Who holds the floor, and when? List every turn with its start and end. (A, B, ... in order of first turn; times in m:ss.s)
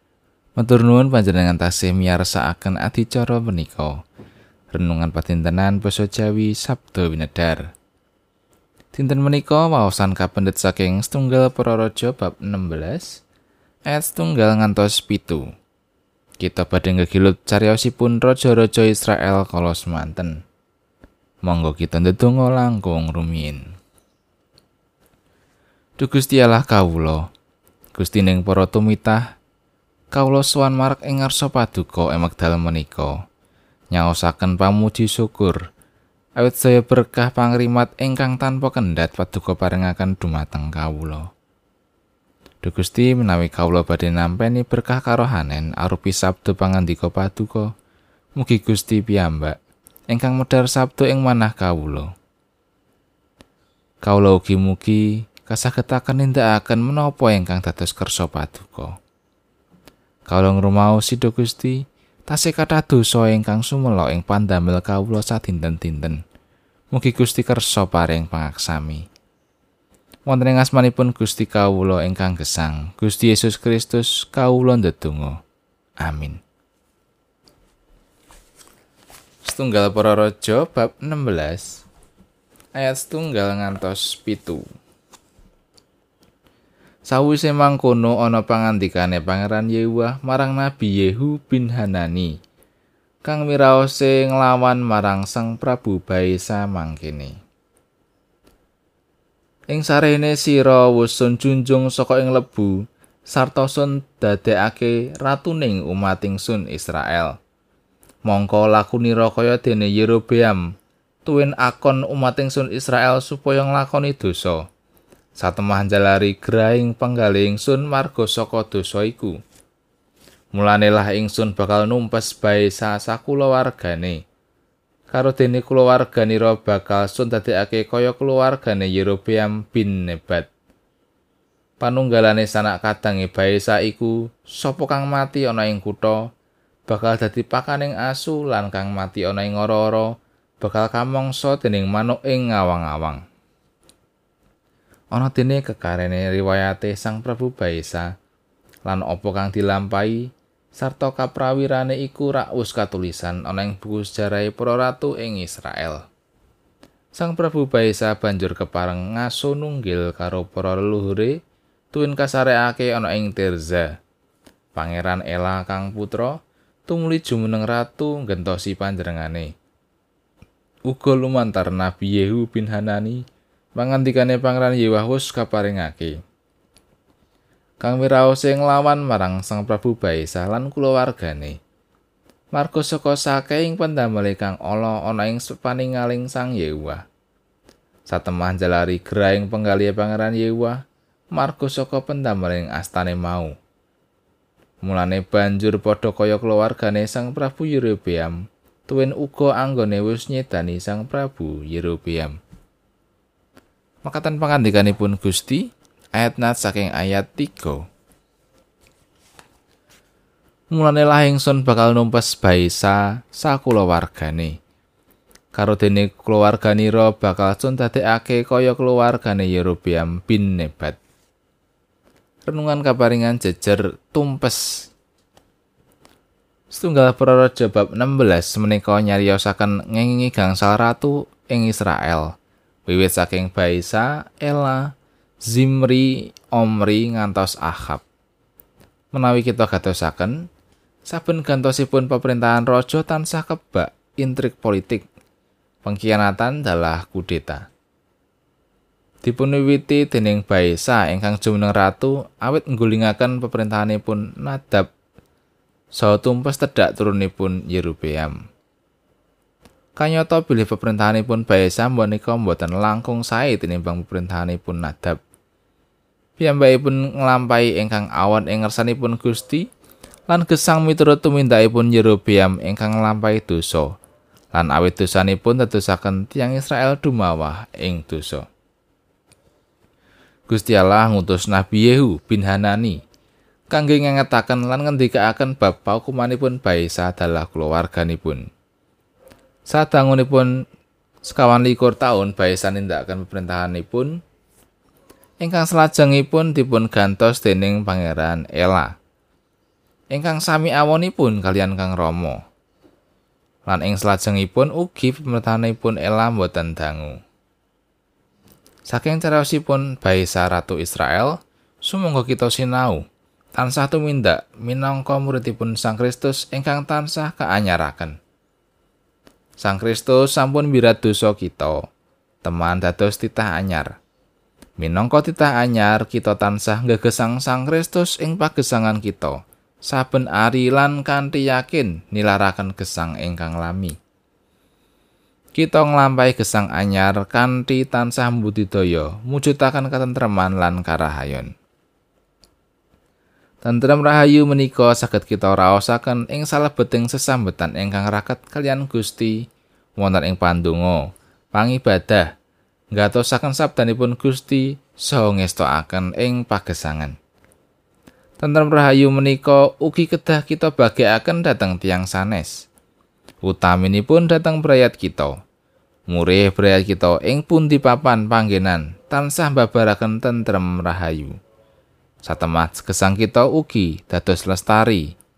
0:00.6-0:04.0 A
0:04.7-0:07.7 A
0:08.9-0:13.1 A
0:13.9-0:15.5 A
0:16.4-0:20.4 A
0:21.4-0:23.6 A
0:26.0-0:27.2 A
0:27.9-0:29.2 A
0:30.1-0:33.2 A
0:33.9-0:35.6 A
0:36.4-0:41.3 A
0:42.6-0:47.7 A
0:48.4-0:49.6 A
0:50.1-0:52.1 A
0:54.0-0:59.0 A
1:00.3-1:06.2 A
1:06.9-1:09.0 A
1:10.3-1:15.4 A
1:16.0-1:16.4 A
1:19.4-1:21.8 A
1:22.8-1:24.6 A
1:27.1-1:32.3 A
1:33.2-1:37.4 A
1:39.7-1:47.4 A
1:48.3-1:50.6 A
1:51.2-1:54.6 A
1:55.4-1:59.4 A
2:00.5-2:04.2 A
2:05.1-2:10.5 A
2:11.8-2:16.3 A
2:16.9-2:23.2 A
2:25.1-2:28.1 A
2:28.8-2:36.0 A
2:37.2-2:41.4 A
2:41.9-2:43.9 A
2:44.8-2:49.5 A
2:50.9-2:53.2 A
2:53.8-2:56.2 A
2:57.8-3:01.6 A
3:02.5-3:07.0 A
3:08.1-3:10.8 A
3:11.3-3:13.5 A
3:14.8-3:18.4 A
3:18.9-3:22.4 A
3:24.0-3:27.8 A
3:30.7-3:34.6 A
3:35.5-3:41.0 A
3:42.5-3:44.6 A
3:46.7-3:52.3 A
3:52.9-3:54.9 A
3:55.5-3:58.0 A
3:59.1-4:00.4 A
4:01.1-4:05.0 A
4:05.8-4:07.6 A
4:09.2-4:14.9 A
4:16.0-4:18.4 A
4:20.0-4:25.2 A
4:26.4-4:29.7 A
4:30.3-4:33.9 A
4:34.5-4:38.5 A
4:40.5-4:43.0 A
4:43.7-4:48.4 A
4:49.7-4:50.5 A
4:51.2-4:54.1 A
4:55.4-4:58.9 A
5:00.1-5:02.4 A
5:03.6-5:07.2 A
5:08.9-5:13.0 A
5:13.6-5:18.2 A
5:19.6-5:21.8 A
5:22.4-5:23.9 A
5:24.8-5:34.0 A
5:35.6-5:41.5 A
5:43.6-5:49.4 A
5:50.0-5:52.3 A
5:52.9-5:57.1 A
5:58.4-6:02.6 A
6:03.4-6:05.4 A
6:06.1-6:11.4 A
6:12.2-6:15.1 A